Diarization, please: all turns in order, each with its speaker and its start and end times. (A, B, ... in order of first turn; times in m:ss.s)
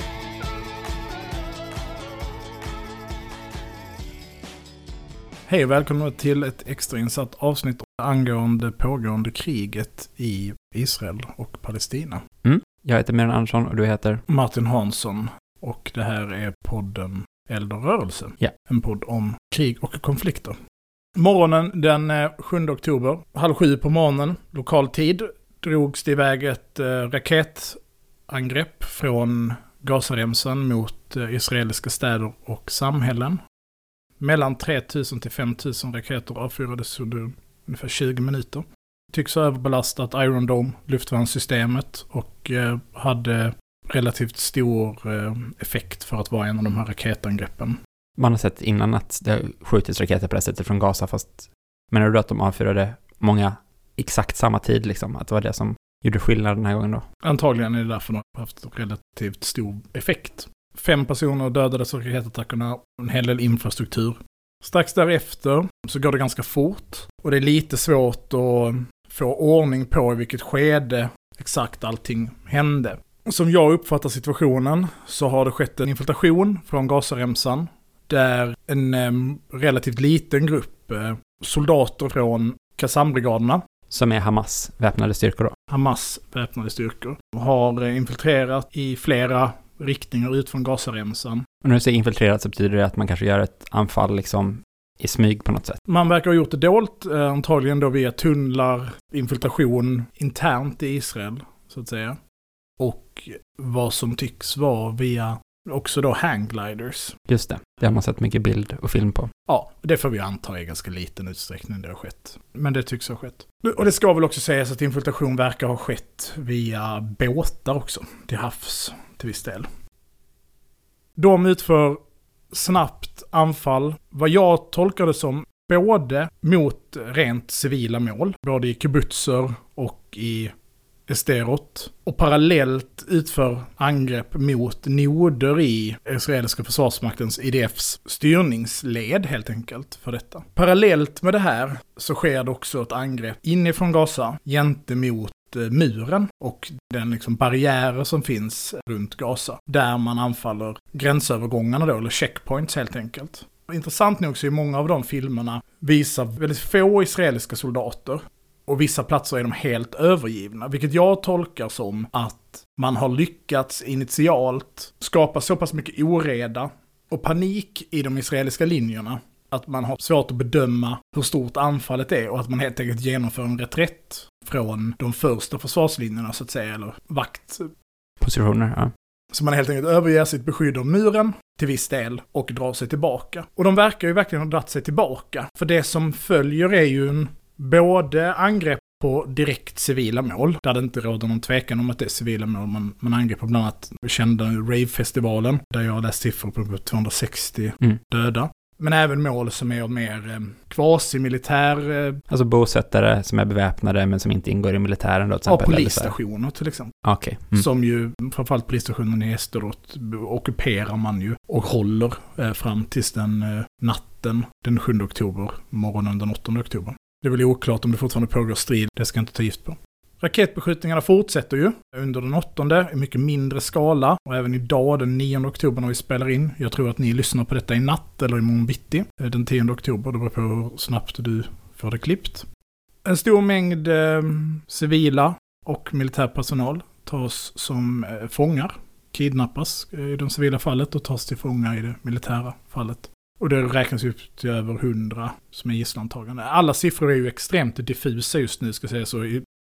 0:05.5-0:12.2 A
0:12.4-0:14.2 B
0:14.3-0:20.6 A
0:21.2-0:33.4 A
0:34.2-0:47.8 A
0:48.2-0:57.0 B
0:57.2-1:23.6 A
1:23.9-1:25.5 B
1:25.7-1:31.4 A
1:31.6-1:35.8 B
1:35.8-1:42.2 A
1:42.8-1:47.1 A
1:47.3-1:49.3 B
1:49.5-1:59.7 A
2:01.2-2:02.0 A
2:02.5-2:10.5 A
2:11.1-2:57.7 A
2:58.2-2:58.9 B
2:59.3-3:22.2 A
3:22.3-3:26.1 B
3:25.5-3:26.9 A
3:27.0-3:27.6 B
3:27.5-3:52.5 A
3:53.0-4:09.4 A